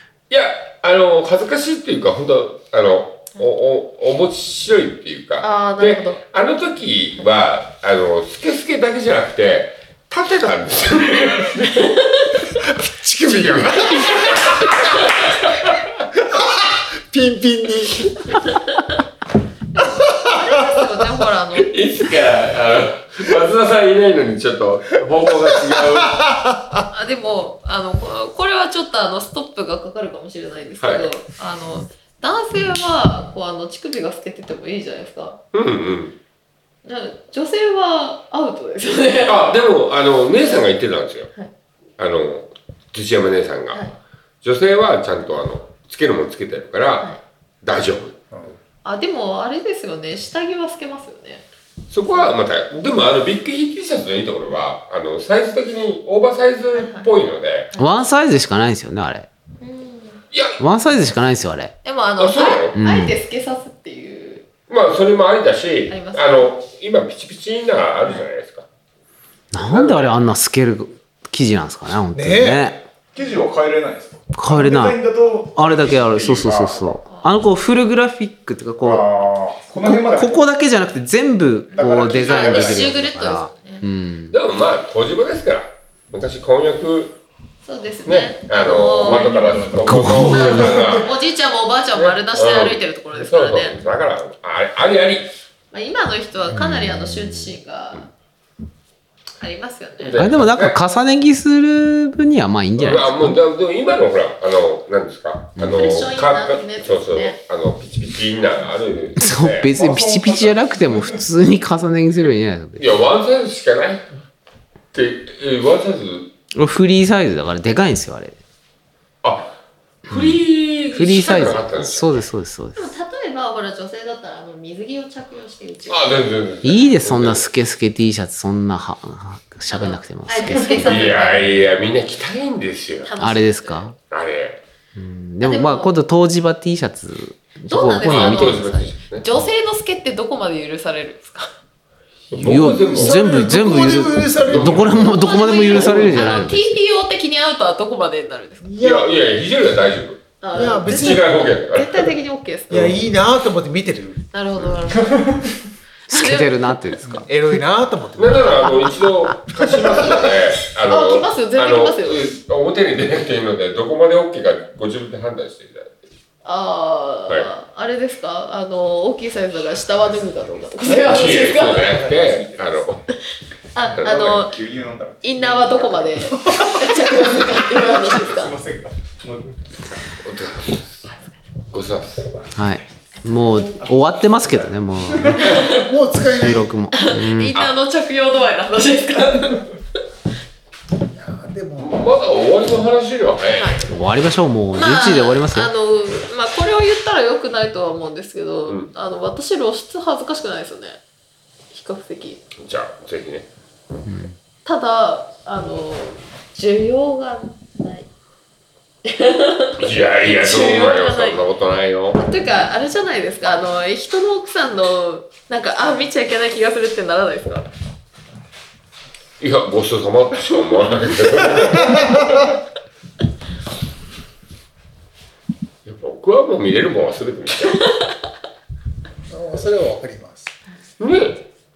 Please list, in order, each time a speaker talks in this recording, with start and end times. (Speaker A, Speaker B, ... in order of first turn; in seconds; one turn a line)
Speaker A: 0.3-15.8
Speaker B: 5.4-6.2
Speaker B: 11.8-12.4
Speaker C: 12.7-13.9
Speaker C: 16.2-18.0
Speaker B: 19.7-21.8
Speaker C: 20.1-20.7
Speaker A: 21.5-26.3
Speaker C: 26.0-26.8
Speaker B: 26.9-35.4
Speaker A: 30.8-31.1
Speaker A: 35.5-36.2
Speaker B: 36.8-39.6
Speaker A: 39.2-41.3
Speaker A: 42.0-43.8
Speaker A: 44.4-48.3
Speaker B: 48.8-51.4
Speaker A: 51.9-57.7
Speaker B: 56.7-57.1
Speaker D: 57.8-59.3
Speaker B: 59.6-60.2
Speaker A: 60.3-60.6
Speaker D: 60.6-61.8
Speaker B: 61.8-64.5
Speaker A: 62.2-62.8
Speaker D: 62.8-63.1
Speaker A: 64.7-68.7
Speaker B: 65.9-66.5
Speaker D: 69.5-72.8
Speaker A: 69.7-70.2
Speaker C: 72.1-72.8
Speaker E: 73.1-77.0
Speaker D: 74.3-75.0
Speaker D: 75.5-84.3
Speaker B: 77.0-77.3
Speaker E: 78.8-80.4
Speaker E: 81.7-82.9
Speaker B: 82.1-83.8
Speaker A: 82.1-83.0
Speaker A: 84.3-87.2
Speaker B: 87.6-89.6
Speaker A: 88.0-91.1
Speaker E: 88.9-91.0
Speaker D: 89.8-90.6
Speaker B: 90.3-93.8
Speaker A: 91.9-95.3
Speaker B: 95.7-98.1
Speaker D: 96.5-97.5
Speaker B: 99.4-100.2
Speaker A: 100.0-100.8
Speaker D: 100.2-103.4
Speaker A: 102.8-109.7
Speaker D: 105.6-105.9
Speaker B: 105.7-107.4
Speaker D: 109.2-113.0
Speaker E: 109.7-111.2
Speaker A: 112.8-114.1
Speaker A: 114.9-116.3
Speaker D: 116.5-118.4
Speaker A: 119.2-122.2
Speaker D: 120.1-120.4
Speaker D: 120.9-123.0
Speaker B: 122.7-126.3
Speaker A: 125.9-127.5
Speaker D: 126.6-131.1
Speaker B: 129.7-131.7
Speaker A: 130.6-133.1
Speaker B: 133.0-133.9
Speaker D: 133.2-133.9
Speaker A: 134.1-134.6
Speaker D: 134.9-138.7
Speaker B: 135.4-135.9
Speaker B: 137.7-141.5
Speaker A: 138.0-139.2
Speaker A: 142.3-143.2
Speaker D: 142.3-146.8
Speaker C: 142.9-144.9
Speaker A: 144.4-146.4
Speaker B: 145.0-148.7
Speaker C: 148.6-149.1
Speaker A: 148.8-152.1
Speaker B: 150.4-153.0
Speaker C: 150.5-151.3
Speaker C: 152.7-154.2
Speaker B: 154.3-155.3
Speaker E: 155.2-155.5
Speaker B: 156.1-156.6
Speaker D: 156.1-157.2
Speaker C: 157.1-158.7
Speaker A: 158.2-166.1
Speaker D: 158.8-159.3
Speaker B: 160.9-162.3
Speaker B: 166.4-172.1
Speaker E: 170.9-172.8
Speaker A: 171.0-173.0
Speaker B: 173.7-174.6
Speaker E: 174.0-179.8
Speaker B: 175.2-178.5
Speaker A: 180.2-180.9
Speaker A: 181.7-182.3
Speaker D: 182.5-185.7
Speaker E: 183.4-184.5
Speaker C: 185.2-186.7
Speaker B: 185.4-185.7
Speaker D: 186.3-187.6
Speaker B: 186.9-189.7
Speaker C: 191.1-192.0
Speaker A: 191.8-193.8
Speaker B: 193.6-193.9
Speaker D: 193.9-195.7
Speaker B: 194.7-201.0
Speaker B: 201.7-202.4
Speaker A: 202.6-203.5
Speaker D: 204.1-204.4
Speaker B: 204.6-208.1
Speaker B: 209.0-211.4
Speaker A: 209.8-212.2
Speaker B: 212.1-217.7
Speaker A: 219.4-222.6
Speaker A: 225.8-227.8
Speaker B: 227.6-228.1
Speaker C: 229.3-230.5
Speaker A: 231.0-231.4